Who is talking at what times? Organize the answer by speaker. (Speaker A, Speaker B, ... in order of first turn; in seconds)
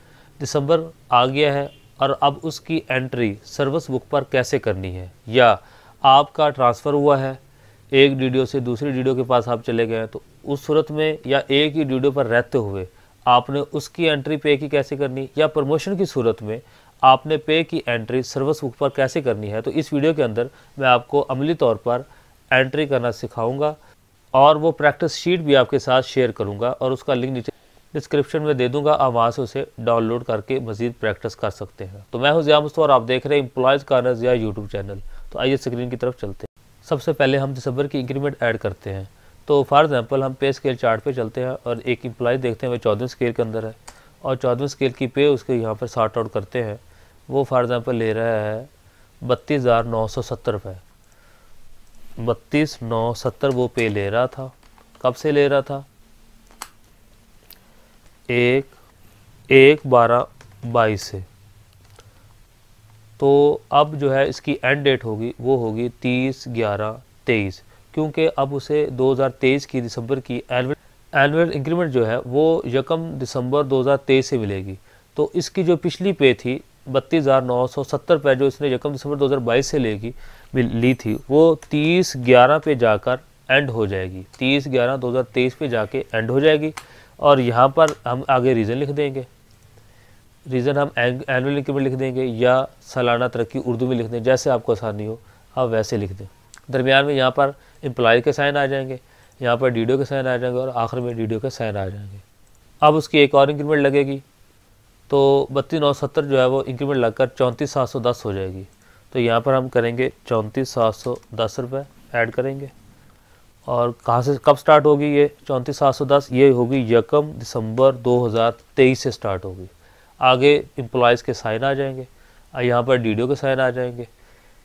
Speaker A: 0.4-7.4, 7.9-23.8, 24.3-48.7, 49.2-50.8, 52.2-55.9, 58.3-58.7, 59.5-61.2, 63.2-89.3, 90.5-102.2, 102.8-104.2, 105.1-112.7, 113.7-124.1